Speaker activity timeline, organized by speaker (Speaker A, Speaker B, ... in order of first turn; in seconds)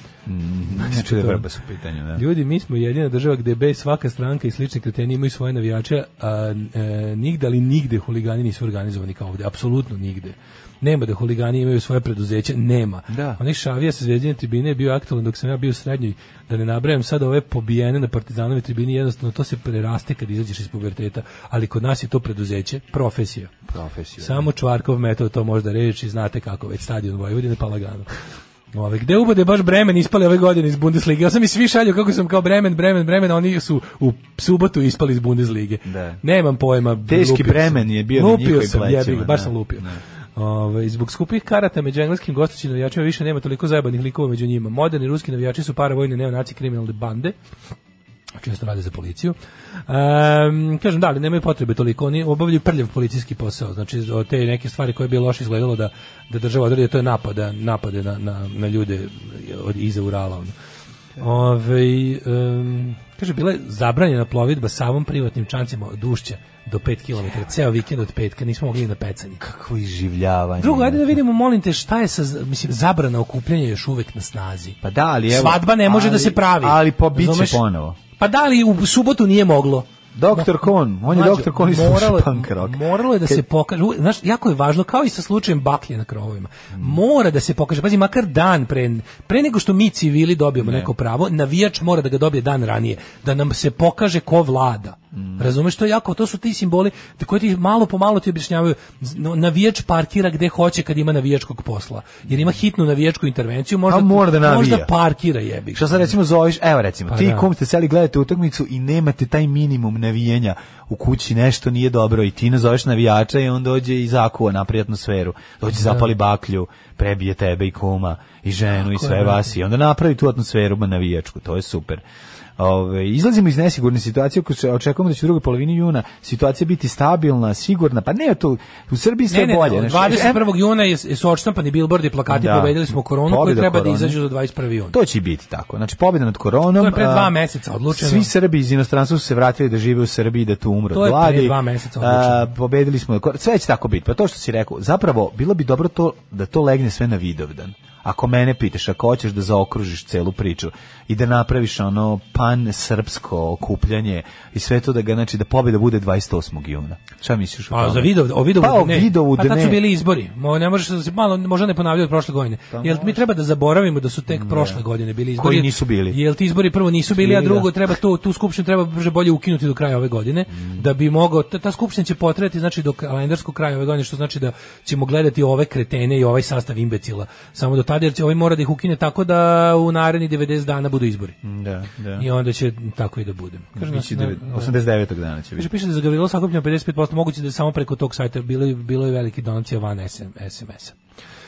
Speaker A: 0.3-2.2, 13.1-13.4, 23.7-24.5, 35.9-36.2, 37.1-40.0, 69.4-71.2, 74.8-78.0, 80.1-83.4, 86.7-87.0, 90.6-90.9, 95.1-95.5, 103.9-104.9, 105.7-122.0, 122.6-130.5, 132.3-134.2, 134.9-137.3, 137.9-159.8, 162.7-163.2, 164.3-164.8, 165.4-166.2, 167.1-167.7, 170.5-170.9, 181.4-182.3, 183.8-185.7
Speaker B: 0.8-1.4, 2.1-23.5, 24.2-28.1, 28.7-47.4, 48.4-49.4, 49.9-60.5, 61.2-69.4, 70.6-74.8, 75.3-77.6, 78.2-106.1, 107.1-107.5, 115.8-116.1, 118.8-119.5, 129.3-135.0, 136.8-138.3, 140.9-142.5, 157.7-181.4, 182.2-184.7, 185.6-191.0